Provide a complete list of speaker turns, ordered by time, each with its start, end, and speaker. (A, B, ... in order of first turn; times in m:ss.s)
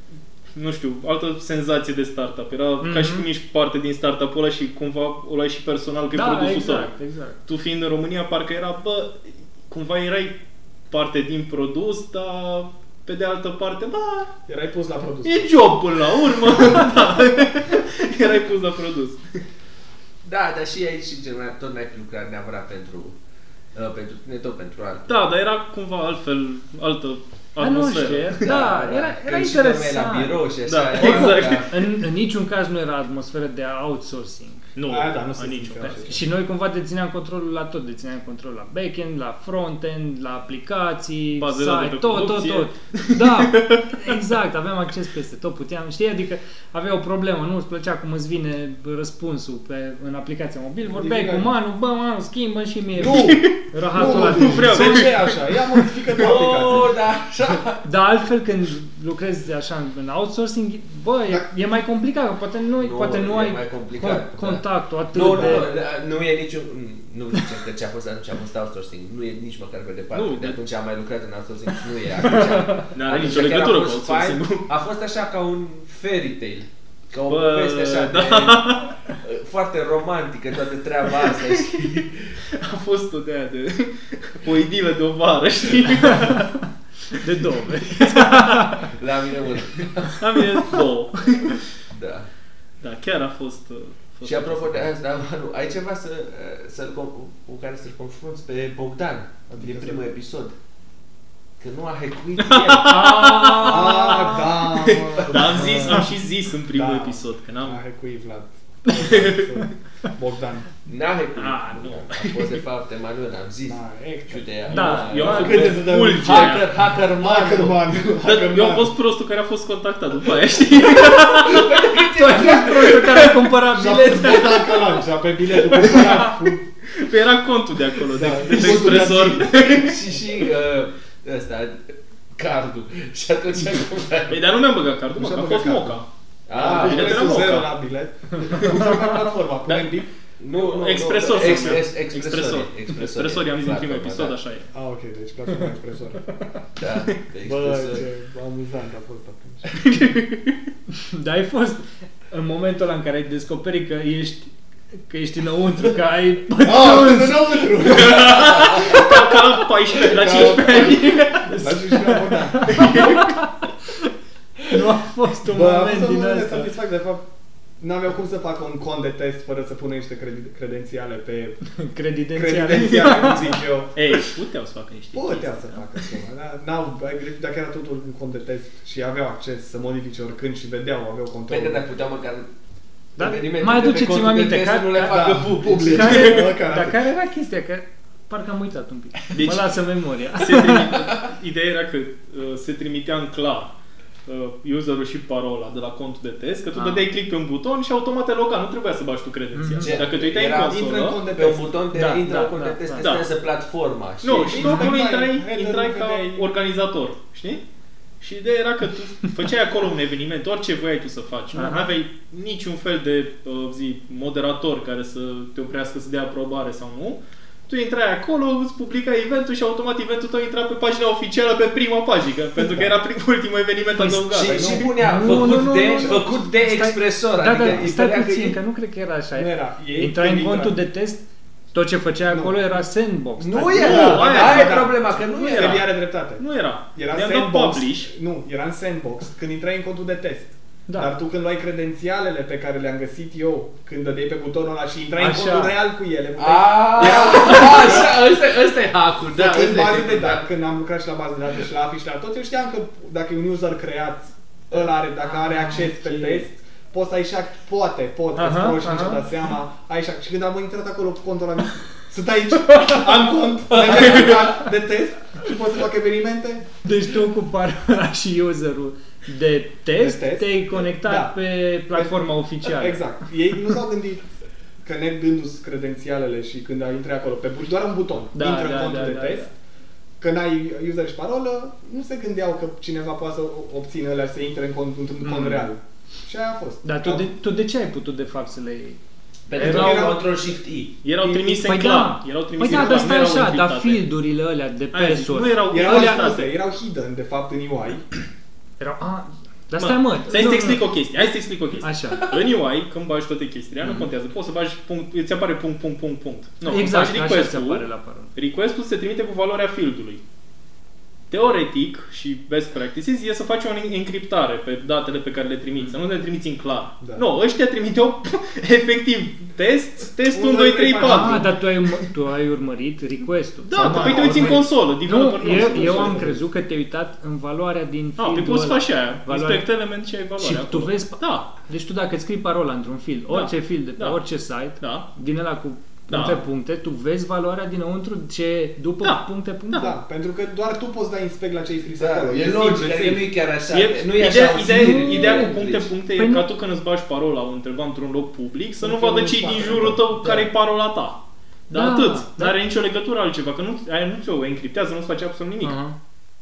0:00.5-0:06.9 A
0:02.8-0:03.3 B
0:06.1-0:07.4 B
0:07.5-0:10.4 A
0:10.9-0:14.3 A
0:14.5-0:15.5 C
0:15.2-0:19.4 A
0:20.2-0:23.2 D
0:23.7-0:25.1 D
0:25.1-0:28.4 A
0:27.6-0:30.4 B
0:28.4-0:31.7 D
0:30.7-0:31.8 A
0:31.0-0:34.6 B
0:34.8-0:36.1 A
0:34.8-0:36.2 C
0:36.0-0:55.0 B
0:41.4-0:44.1 A
0:50.9-0:51.5 C
0:53.0-0:57.0 C
0:53.0-0:56.2 A
0:56.2-0:57.8 D
0:57.8-1:05.8 B
1:02.8-1:22.4 D
1:05.3-1:05.7 C
1:10.1-1:10.6 A
1:12.3-1:12.9 B
1:12.9-1:14.7 A
1:17.3-1:19.0 A
1:21.5-1:26.6 A
1:27.1-1:28.8 B
1:28.7-1:30.2 D
1:30.2-1:31.6 A
1:31.9-1:32.3 D
1:32.8-1:34.9 A
1:34.2-1:40.5 D
1:39.5-1:40.0 C
1:41.6-1:43.0 D
1:42.5-1:47.8 A
1:42.8-1:44.6 B
1:43.6-1:46.1 C
1:46.7-1:50.7 C
1:48.9-1:49.7 A
1:50.9-1:58.0 D
1:51.4-1:52.6 A
1:53.7-1:56.6 C
1:54.7-1:55.5 B
1:54.7-1:56.7 A
1:57.2-1:58.9 C
1:58.2-2:01.9 A
2:00.6-2:03.4 D
2:02.1-2:04.6 B
2:03.7-2:06.6 C
2:04.0-2:04.9 D
2:05.7-2:06.2 D
2:05.8-2:06.4 A
2:06.9-2:10.1 A
2:08.1-2:09.5 C
2:08.2-2:14.4 D
2:14.3-2:16.1 A
2:15.2-2:20.1 C
2:16.5-2:17.6 D
2:16.6-2:17.7 A
2:18.5-2:19.4 D
2:20.4-2:24.4 D
2:20.5-2:24.7 A
2:24.7-2:26.4 C
2:26.8-2:28.0 D
2:27.4-2:29.6 C
2:29.7-2:30.6 A
2:30.9-2:34.5 B
2:35.1-2:37.9 B
2:36.6-2:39.3 C
2:37.9-2:41.8 A
2:38.0-2:39.0 D
2:40.1-2:43.0 C
2:41.4-2:43.5 B
2:42.6-2:43.6 A
2:44.7-2:46.7 B
2:45.5-2:47.2 C
2:47.8-2:51.6 C
2:51.8-2:53.6 B
2:52.3-2:54.0 C
2:54.0-2:55.8 A
2:55.1-3:01.9 C
3:01.5-3:02.5 D
3:03.2-3:11.0 B
3:03.2-3:06.4 D
3:05.0-3:07.0 C
3:09.3-3:09.7 A
3:10.4-3:13.8 A
3:14.3-3:21.2 A
3:16.7-3:17.1 B
3:19.5-3:20.0 B
3:19.8-3:24.8 D
3:20.5-3:21.8 C
3:21.9-3:23.1 B
3:23.0-3:23.3 A
3:24.2-3:27.6 A
3:24.3-3:26.5 C
3:24.6-3:24.9 B
3:28.2-3:44.9 A
3:31.5-3:31.9 B
3:42.6-3:42.9 C
3:44.0-3:54.2 B
3:44.3-3:48.6 D
3:44.5-3:46.3 C
3:49.4-3:50.8 C
3:52.3-3:52.6 C
3:53.4-3:55.9 D
3:53.8-3:56.4 C
3:53.8-3:58.1 A
3:56.9-4:08.4 C
4:00.9-4:01.1 B
4:05.2-4:05.8 B
4:06.4-4:10.4 D
4:09.3-4:26.7 C
4:15.2-4:16.4 B
4:18.4-4:19.2 B
4:23.7-4:24.7 D
4:26.8-4:33.0 B
4:30.0-4:31.4 C
4:31.9-4:34.3 C
4:34.8-4:39.5 C
4:38.3-4:39.5 B
4:40.2-4:47.3 C
4:45.2-4:45.7 B
4:46.8-4:49.0 B
4:49.5-4:51.0 D
4:49.6-4:50.3 C
4:49.6-4:50.0 B
4:51.0-4:54.0 A
4:51.2-4:51.6 C
4:51.5-4:56.2 B
4:52.6-4:53.2 C
4:54.9-4:56.5 A
4:55.7-4:58.1 C
4:58.8-5:00.9 B
4:59.8-5:10.2 A
5:01.8-5:02.3 B
5:06.6-5:08.3 B
5:11.3-5:21.5 A
5:17.0-5:17.3 C
5:20.3-5:21.6 C
5:21.0-5:29.7 B
5:23.6-5:26.3 A
5:23.8-5:24.7 C
5:25.4-5:26.4 C
5:28.2-5:31.5 A
5:30.4-5:39.9 B
5:33.3-5:34.2 A
5:34.8-5:35.1 A
5:36.1-5:36.4 A
5:39.0-5:39.9 A
5:39.7-5:43.3 C
5:42.0-5:45.9 D
5:43.7-5:55.8 A
5:44.6-5:45.5 B
5:46.2-5:46.5 B
5:48.8-5:50.1 C
5:50.2-5:50.5 D
5:51.7-5:52.6 B
5:55.6-5:56.0 B